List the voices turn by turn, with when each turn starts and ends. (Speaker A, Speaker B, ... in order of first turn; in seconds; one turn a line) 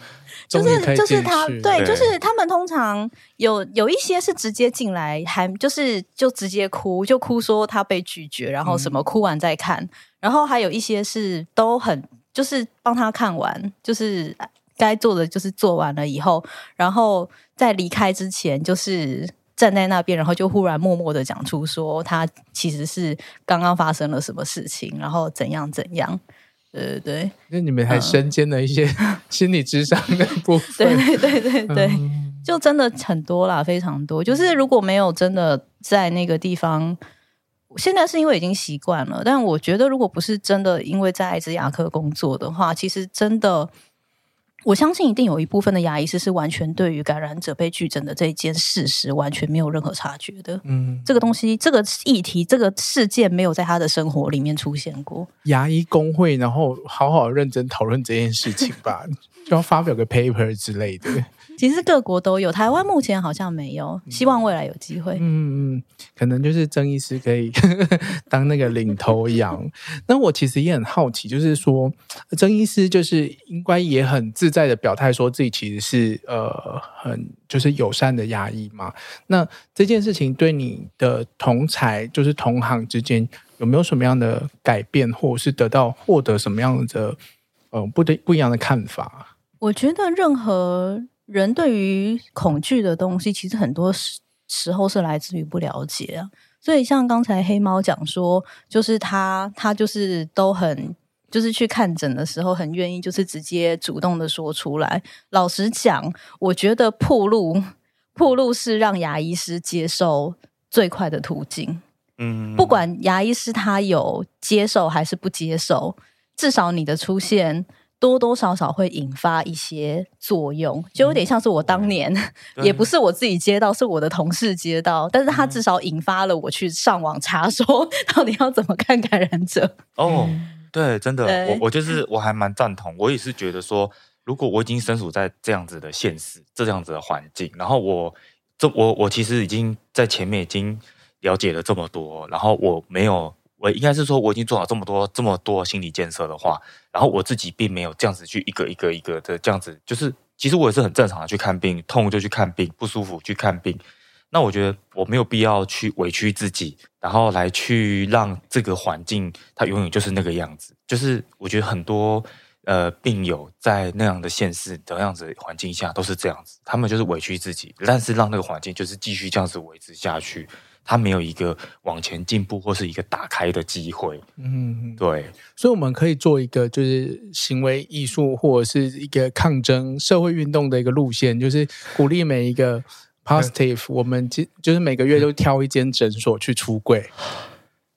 Speaker A: 0.5-26.2
Speaker B: 0.5-1.9
Speaker C: 1.7-2.2
Speaker B: 8.6-9.0
Speaker A: 26.7-27.3
Speaker B: 27.5-32.5
Speaker A: 27.9-28.2
Speaker A: 30.8-37.0
Speaker A: 37.7-43.7
Speaker A: 44.6-55.3
Speaker B: 50.6-51.3
Speaker B: 55.5-61.3
Speaker A: 61.6-65.2
Speaker B: 65.2-87.2
Speaker B: 87.7-89.3
Speaker A: 89.6-111.8
Speaker C: 112.2-112.8
Speaker A: 112.6-129.8
Speaker C: 121.7-121.9
Speaker C: 122.6-122.9
Speaker C: 130.0-174.2
Speaker B: 130.1-130.4
Speaker A: 131.2-131.7
Speaker B: 174.4-175.0
Speaker C: 175.0-175.4
Speaker B: 175.5-187.1